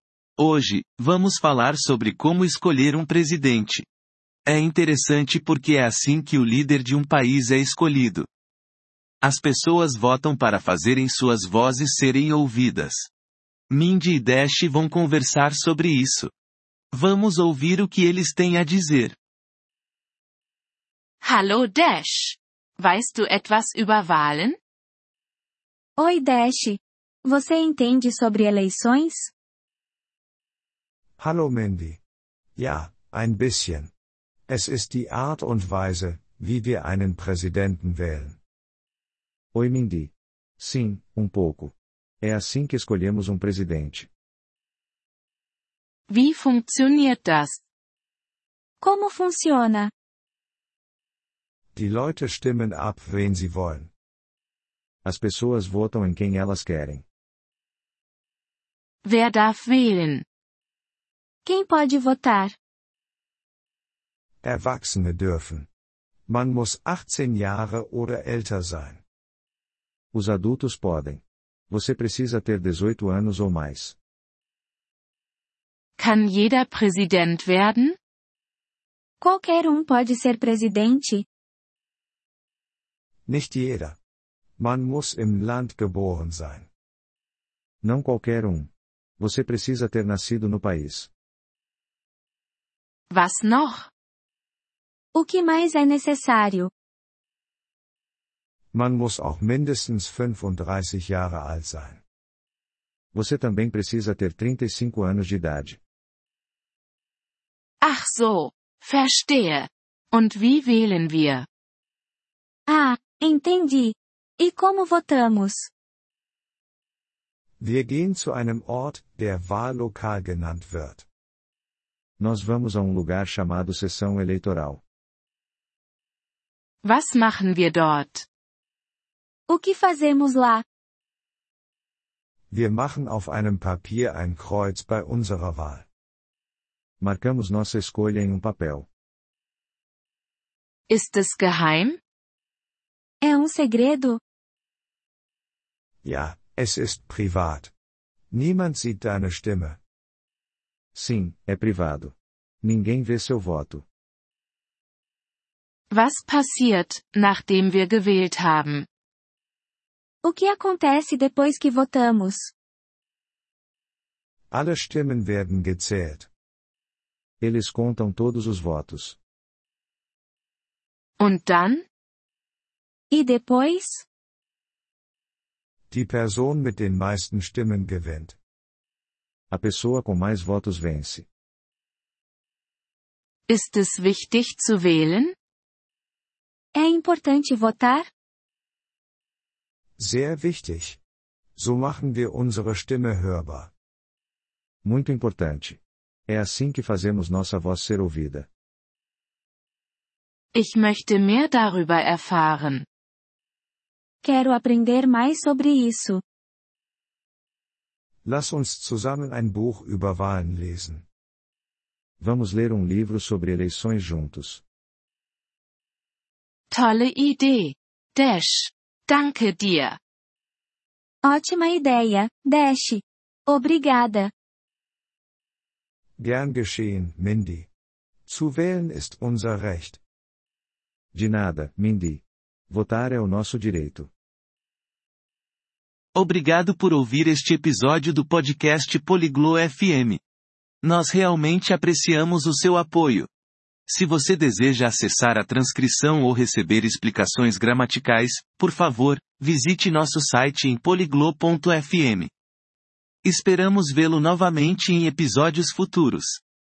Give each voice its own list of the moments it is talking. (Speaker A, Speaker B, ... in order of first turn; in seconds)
Speaker A: 0.4-3.9, 4.5-8.3, 9.2-13.1, 13.7-16.3, 16.9-19.2, 236.1-240.2, 240.8-243.3, 243.9-252.3, 253.2-256.4
Speaker B: 21.2-24.6, 46.1-47.6, 59.0-60.2, 76.0-78.0, 93.1-93.9, 107.8-111.5, 126.8-128.2, 140.9-142.0, 155.9-158.8, 171.2-171.8, 183.5-185.3, 200.5-202.8, 216.7-220.0
Speaker C: 26.0-29.3, 48.8-49.9, 61.4-62.5, 79.2-81.2, 95.1-96.7, 112.7-115.7, 129.5-130.6, 143.2-144.2, 160.2-162.5, 173.1-174.0, 186.7-188.1, 204.2-206.2, 221.2-224.3
Speaker D: 31.2-32.0, 32.6-33.9, 34.5-38.4, 51.7-53.9, 64.4-65.7, 66.3-69.0, 83.3-84.0, 84.6-86.7, 98.7-102.0, 117.6-121.0, 132.5-135.8, 146.0-147.7, 148.3-149.8, 164.5-166.3, 175.9-178.3, 190.0-191.0, 191.6-193.7, 208.2-211.0, 226.2-227.7, 228.3-230.0
Speaker E: 39.5-44.1, 55.0-57.0, 70.1-74.0, 87.8-91.1, 103.1-105.8, 122.2-124.8, 137.0-138.9, 150.9-153.8, 167.4-169.2, 179.5-181.2, 194.8-198.5, 212.2-214.6, 231.1-234.1